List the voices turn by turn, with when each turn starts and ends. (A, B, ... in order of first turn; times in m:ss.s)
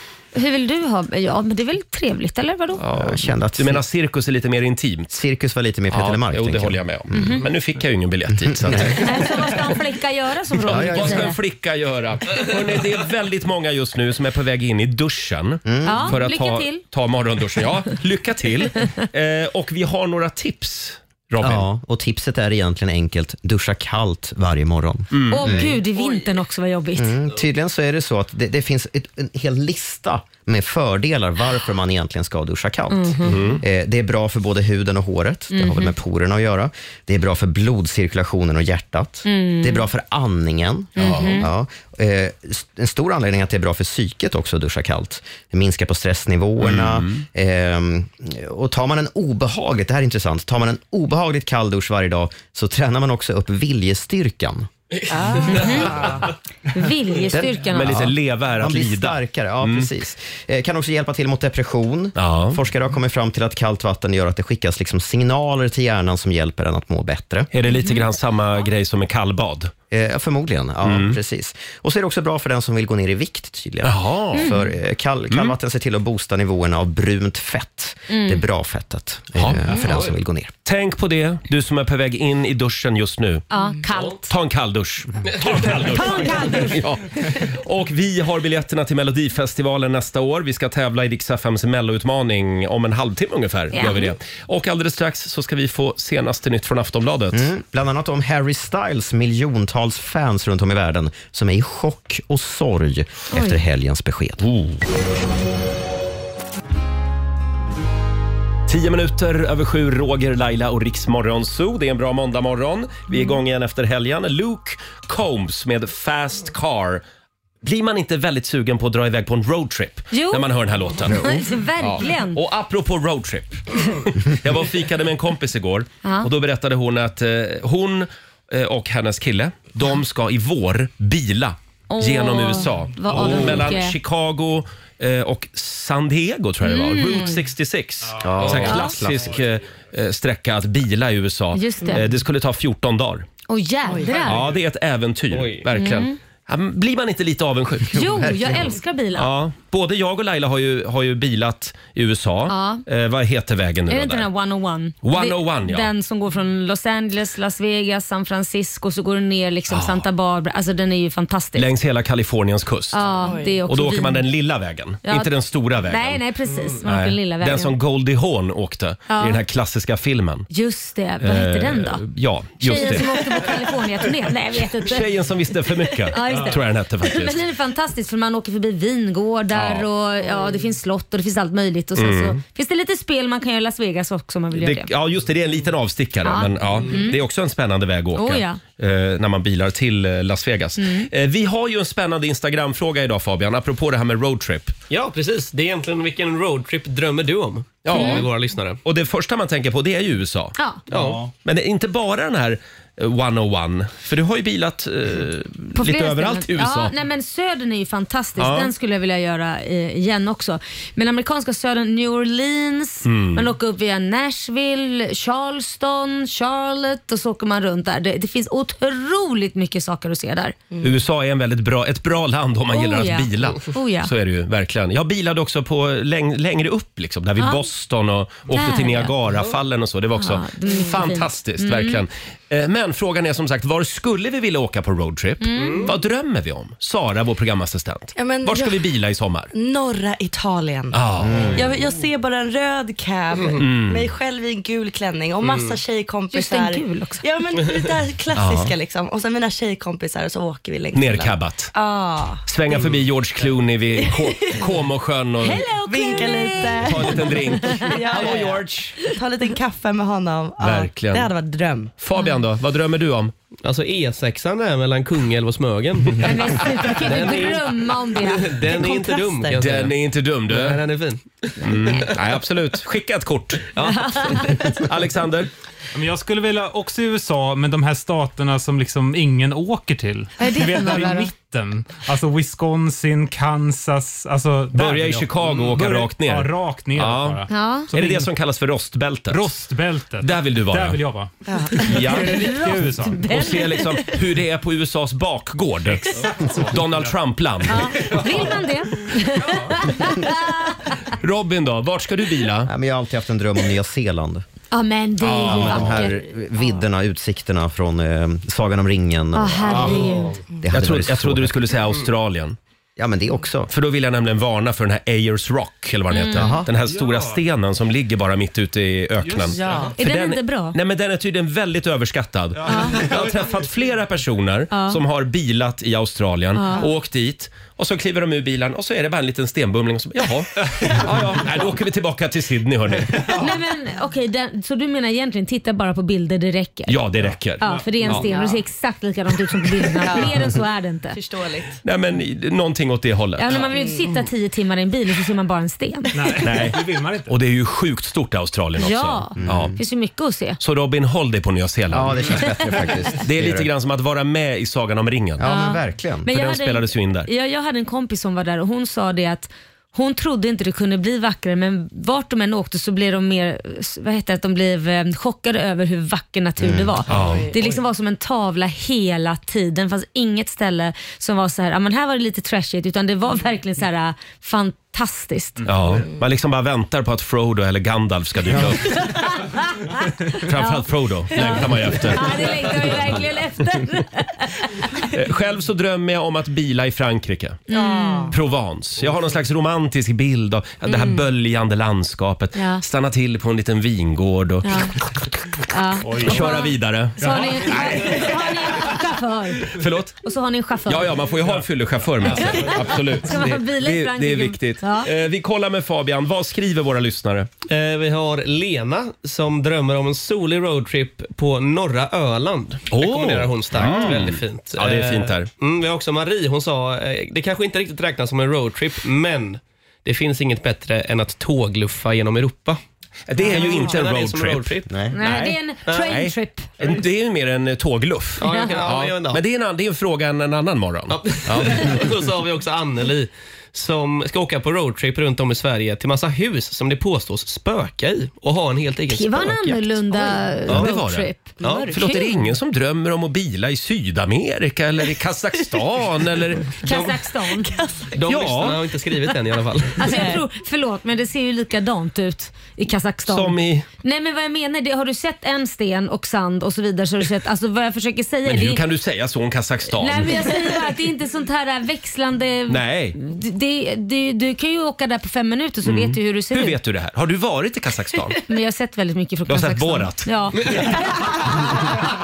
0:00.3-0:02.8 A
0:02.8-0:05.1 B
0:02.9-0:03.8 C
0:05.1-0:07.4 C
0:05.9-0:09.1 B
0:07.1-0:07.4 A
0:08.3-0:09.2 C
0:09.0-0:11.4 A
0:10.6-0:21.7 B
0:10.7-0:11.3 C
0:15.6-0:16.2 C
0:15.8-0:16.8 A
0:21.4-0:25.8 C
0:25.1-0:25.7 B
0:25.3-0:27.2 A
0:27.0-0:54.7 C
0:32.9-0:33.4 A
0:33.3-0:33.6 B
0:35.5-0:35.9 A
0:39.2-0:39.9 A
0:41.0-0:41.5 A
0:41.0-0:41.4 B
0:46.6-0:47.2 B
0:55.5-0:56.1 A
0:56.7-0:58.1 A
0:57.3-1:07.5 C
0:57.7-0:59.9 B
1:02.2-1:02.6 B
1:07.5-1:09.7 B
1:07.7-1:08.1 A
1:09.9-1:20.5 C
1:10.8-1:11.2 B
1:13.8-1:14.5 B
1:14.4-1:14.7 A
1:15.3-1:15.6 B
1:18.1-1:18.4 A
1:19.4-1:20.1 B
1:20.6-1:23.5 B
1:23.5-1:24.3 A
1:24.0-1:37.5 B
1:25.9-1:26.8 A
1:33.7-1:34.2 A
1:37.3-1:44.5 C
1:43.3-1:43.6 A
1:44.4-1:44.8 B
1:48.7-1:57.0 B
1:57.6-2:23.3 B
2:00.1-2:00.4 A
2:01.1-2:02.4 A
2:11.9-2:14.0 A
2:16.6-2:17.4 A
2:18.2-2:19.2 C
2:18.4-2:18.7 D
2:18.6-2:19.0 A
2:21.5-2:22.0 A
2:23.5-2:24.4 A
2:23.9-2:24.3 E
2:24.2-2:28.5 B
2:25.3-2:25.7 D
2:25.7-2:26.1 A
2:27.9-2:29.3 A
2:29.2-2:34.3 B
2:32.5-2:32.8 A
2:33.9-2:41.7 A
2:35.0-2:35.9 B
2:39.7-2:40.1 B
2:41.6-2:43.0 B
2:42.9-2:44.3 A
2:43.2-2:43.6 E
2:43.7-2:46.2 B
2:45.9-2:47.8 A
2:46.8-2:50.5 B
2:49.1-2:49.4 A
2:50.5-2:52.0 A
2:51.2-2:53.7 B
2:52.6-2:55.1 A
2:54.6-2:57.4 B
2:56.1-3:04.9 A
2:59.5-2:59.9 B
3:02.0-3:02.4 B
3:04.6-3:14.8 B
3:06.2-3:07.2 A
3:08.2-3:08.6 A
3:10.8-3:11.1 A
3:14.9-3:18.8 D
3:17.8-3:18.3 B
3:17.9-3:18.2 A
3:18.8-3:26.9 B
3:20.6-3:20.8 A
3:20.9-3:21.3 D
3:25.8-3:40.6 A
3:28.4-3:28.7 B
3:33.0-3:33.5 B
3:40.8-3:59.5 B
3:42.7-3:44.1 A
3:47.4-3:47.6 A
3:48.5-3:49.1 A
3:50.2-3:52.0 A
3:55.4-3:55.9 A
3:55.6-3:55.9 D
3:58.2-3:58.9 E
3:59.5-4:01.0 E
4:00.9-4:01.7 B
4:01.2-4:01.8 C
4:01.6-4:12.4 E
4:03.6-4:04.1 B
4:05.4-4:05.8 D
4:06.3-4:07.2 A
4:08.3-4:08.7 B
4:10.9-4:11.7 B
4:12.5-4:15.7 B
4:14.0-4:14.8 E
4:15.4-4:18.1 A
4:15.9-4:21.9 E
4:16.8-4:19.0 B
4:18.1-4:18.6 D
4:20.6-4:21.3 B
4:22.0-4:23.3 B
4:23.6-4:30.0 D
4:26.2-4:28.6 A
4:28.6-4:29.8 E
4:29.6-4:30.8 B
4:30.5-4:32.1 D
4:31.6-4:35.5 B
4:33.8-4:34.8 D
4:34.0-4:34.5 A
4:35.9-4:48.3 F
4:40.4-4:41.3 A
4:44.7-4:49.5 B
4:47.5-4:47.9 A
4:49.3-4:53.4 F
4:50.2-4:51.0 B
4:51.5-4:51.8 E
4:51.8-4:52.5 B
4:52.1-4:53.9 A
4:53.3-4:58.4 B
4:56.1-4:57.2 F
4:57.7-5:01.0 A
4:58.0-4:58.3 F
4:59.4-4:59.7 F
5:01.1-5:02.7 B
5:02.6-5:04.4 C
5:04.7-5:06.2 A
5:05.2-5:06.0 B
5:05.4-5:11.6 C
5:09.3-5:10.4 A
5:09.7-5:10.4 F
5:10.7-5:12.6 B
5:13.0-5:13.7 C
5:13.7-5:33.4 B
5:16.1-5:16.5 A
5:16.4-5:16.7 C
5:16.8-5:17.4 F
5:19.2-5:19.9 F
5:19.6-5:19.9 E
5:20.0-5:20.8 A
5:22.6-5:23.1 A
5:22.8-5:23.3 F
5:24.7-5:25.0 A
5:26.5-5:26.9 A
5:33.3-5:37.0 A
5:36.9-5:38.3 B
5:37.6-5:41.2 A
5:37.6-5:38.0 F
5:38.1-5:38.6 E
5:40.0-5:40.6 E
5:41.1-5:41.7 E
5:41.8-5:43.7 B
5:43.4-5:46.4 A
5:43.5-5:44.2 E
5:46.1-5:47.3 F
5:46.4-5:49.8 B
5:48.8-5:50.6 A
5:49.4-5:49.8 C
5:50.6-5:52.6 B
5:51.9-5:53.7 C
5:53.2-5:55.5 B
5:55.4-5:56.3 C
5:55.4-6:15.7 A
5:56.3-5:57.3 B
6:06.6-6:07.0 C
6:07.1-6:07.5 B
6:07.1-6:07.8 E
6:15.7-6:19.0 B
6:18.8-6:25.0 A
6:20.3-6:23.3 B
6:25.1-6:27.6 B
6:27.7-6:28.4 A
6:27.7-6:28.3 E
6:28.3-6:34.8 B
6:30.8-6:31.2 A
6:32.6-6:32.8 A
6:34.6-6:34.9 A
6:35.7-6:41.2 A
6:36.0-6:38.4 F
6:36.2-6:38.2 B
6:39.7-6:40.2 B
6:40.9-6:47.5 B
6:41.4-6:42.8 F
6:42.2-6:45.1 A
6:47.7-7:02.8 D
6:52.9-6:55.5 B
7:03.3-7:12.1 B
7:03.3-7:05.0 D
7:03.6-7:03.9 E
7:05.1-7:06.7 A
7:05.9-7:06.2 D
7:06.8-7:07.0 D
7:08.4-7:09.4 D
7:08.5-7:08.8 A
7:11.1-7:20.0 D
7:19.1-7:22.5 A
7:20.7-7:20.9 D
7:20.7-7:21.4 B
7:21.6-7:22.0 E
7:21.6-7:22.0 D
7:21.9-7:26.7 B
7:26.8-7:27.7 A
7:26.9-7:27.1 D
7:26.9-7:28.2 E
7:28.1-7:30.4 D
7:28.3-7:28.8 B
7:30.0-7:38.8 A
7:30.0-7:30.4 E
7:33.3-7:33.9 B
7:38.4-7:40.6 B
7:39.9-7:46.8 A
7:42.7-7:43.2 B
7:45.8-7:48.4 B
7:48.5-7:51.5 A
7:49.5-7:51.8 B